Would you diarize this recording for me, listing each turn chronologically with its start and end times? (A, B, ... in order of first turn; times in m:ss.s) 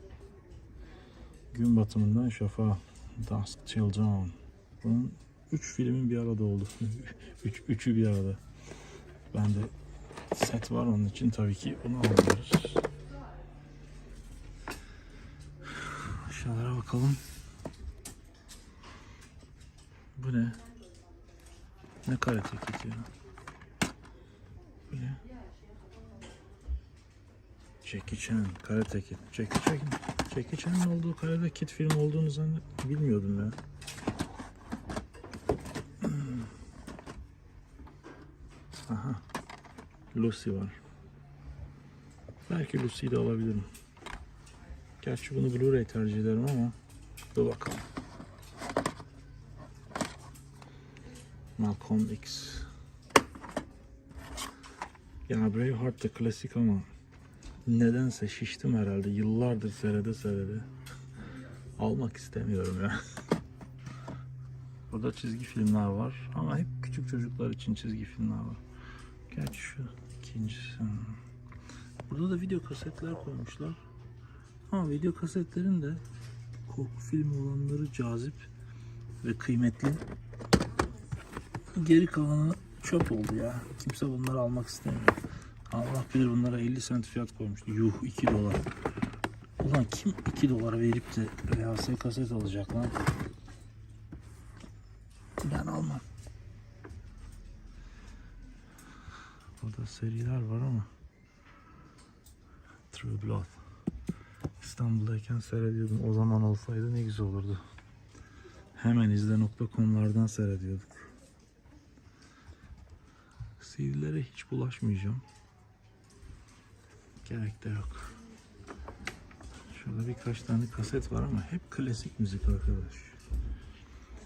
0:01.5-0:08.4 A
0:09.3-0:09.7 A
0:10.3-0:12.8 A
0:15.7-0:17.2 A
0:20.1-0:20.6 A
0:22.0-0:23.1 A
0:24.9-0:25.2 A
0:27.8-0:33.6 A
0:36.0-0:36.5 A
0:38.9-0:39.2 A
0:40.1-0:40.8 A
0:42.5-0:43.7 A
0:45.0-0:46.7 A
0:47.3-0:47.8 A
0:51.6-0:52.7 A
0:55.3-0:56.8 A
0:57.6-1:00.6 A
1:01.8-1:03.0 A
1:04.9-1:08.6 A
1:09.3-1:11.2 A
1:12.1-1:13.8 A
1:14.7-1:16.0 A
1:16.6-1:18.5 A
1:19.2-1:20.0 A
1:21.7-1:28.6 A
1:29.6-1:32.9 A
1:35.4-1:36.0 A
1:39.6-1:40.9 A
1:42.9-1:43.6 A
1:44.6-1:47.6 A
1:48.8-1:51.1 A
1:53.6-1:55.2 A
1:57.2-1:58.1 A
1:59.7-2:03.2 A